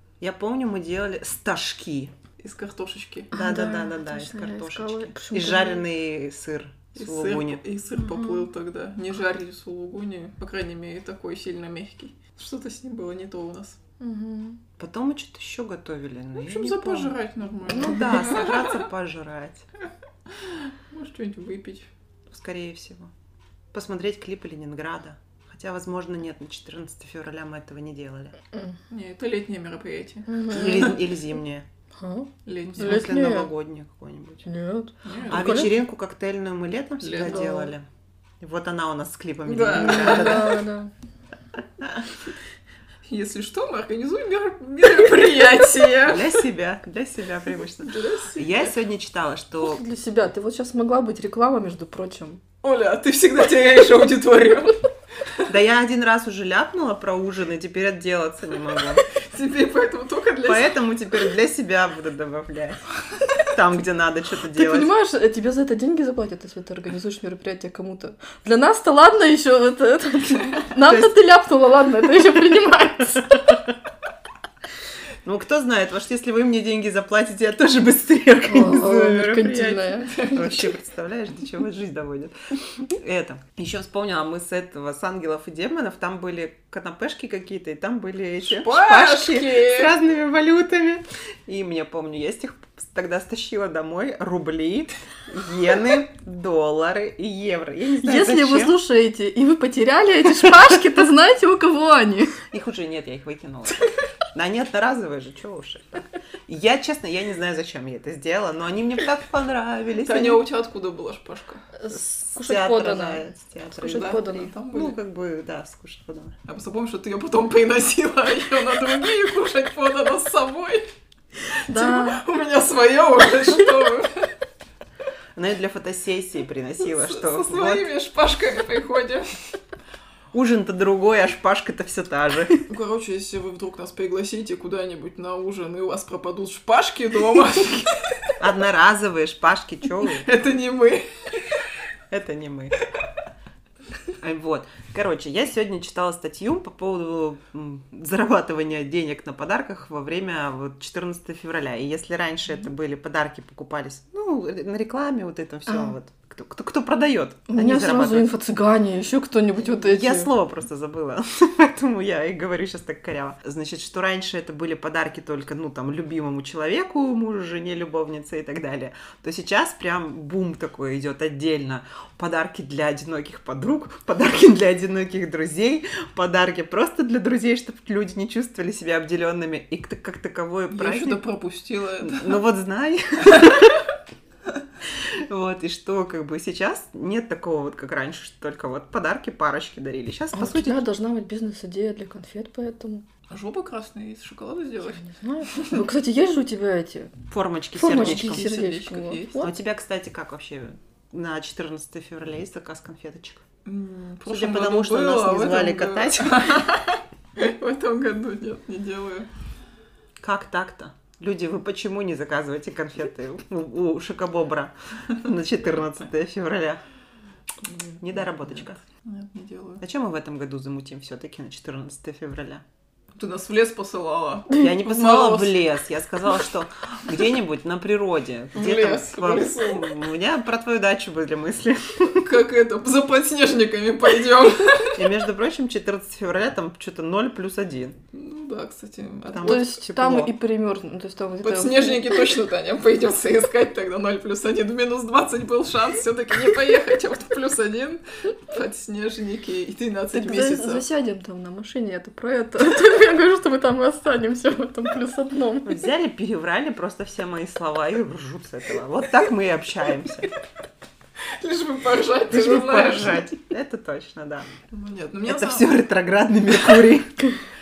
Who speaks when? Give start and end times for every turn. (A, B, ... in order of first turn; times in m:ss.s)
0:00.2-0:02.1 A
0:02.4-0:03.3 B
0:03.3-0:05.8 C
0:03.3-0:07.6 A
0:06.9-0:13.8 B
0:08.0-0:08.5 C
0:14.0-0:14.6 C
0:14.8-0:19.6 A
0:16.4-0:18.8 B
0:20.3-0:21.9 B
0:22.3-0:23.1 A
0:23.7-0:28.4 A
0:28.9-0:31.0 B
0:30.3-0:30.8 C
0:30.5-0:31.6 A
0:32.0-0:33.5 C
0:32.4-0:33.1 B
0:32.7-0:34.5 A
0:34.4-0:35.7 C
0:35.0-0:35.7 B
0:35.3-0:37.8 A
0:37.0-0:37.6 B
0:37.3-0:37.7 C
0:38.4-0:40.6 A
0:39.4-0:40.6 B
0:39.7-0:40.9 C
0:43.0-0:46.4 B
0:46.0-0:49.8 A
0:47.8-0:48.8 B
0:49.6-0:52.4 C
0:52.6-0:54.8 B
0:55.5-0:59.0 A
0:59.1-1:00.8 B
1:00.4-1:02.8 A
1:03.5-1:04.9 A
1:04.5-1:13.5 C
1:10.8-1:11.2 A
1:15.2-1:38.8 A
1:18.4-1:20.6 C
1:28.4-1:30.0 B
1:38.0-1:42.4 C
1:42.5-1:50.4 A
1:50.0-1:51.6 B
1:51.8-1:53.2 C
1:51.9-1:56.3 A
1:53.8-1:54.5 C
1:53.8-1:55.0 B
1:56.4-2:00.9 B
2:01.5-2:04.3 B
2:01.7-2:02.2 C
2:05.3-2:07.9 A
2:06.8-2:09.6 B
2:10.3-2:12.6 A
2:12.7-2:18.3 B
2:18.4-2:20.3 A
2:20.1-2:21.6 B
2:22.1-2:22.7 A
2:24.2-2:38.3 A
2:35.7-2:35.9 C
2:37.5-2:40.3 C
2:39.6-3:01.2 A
3:00.7-3:02.4 B
3:02.0-3:03.9 A
3:04.8-3:10.8 A
3:10.3-3:13.0 C
3:13.3-3:15.8 B
3:14.9-3:17.1 C
3:17.3-3:18.5 A
3:17.8-3:19.5 C
3:17.9-3:19.5 B
3:19.4-3:23.4 A
3:23.6-3:29.3 B
3:24.2-3:26.6 A
3:30.2-3:36.8 A
3:37.9-3:38.8 A
3:38.6-3:39.8 B
3:39.8-3:42.6 A
3:43.1-3:45.7 B
3:44.5-3:52.3 A
3:48.5-3:50.0 B
3:52.1-3:55.0 B
3:54.9-3:58.0 A
3:58.1-3:59.7 B
3:59.2-4:00.3 A
3:59.4-4:02.3 C
4:01.4-4:10.8 B
4:10.1-4:15.8 C
4:15.6-4:20.3 A
4:21.3-4:23.3 B
4:22.3-4:24.5 A
4:24.7-4:25.7 B
4:25.2-4:27.2 A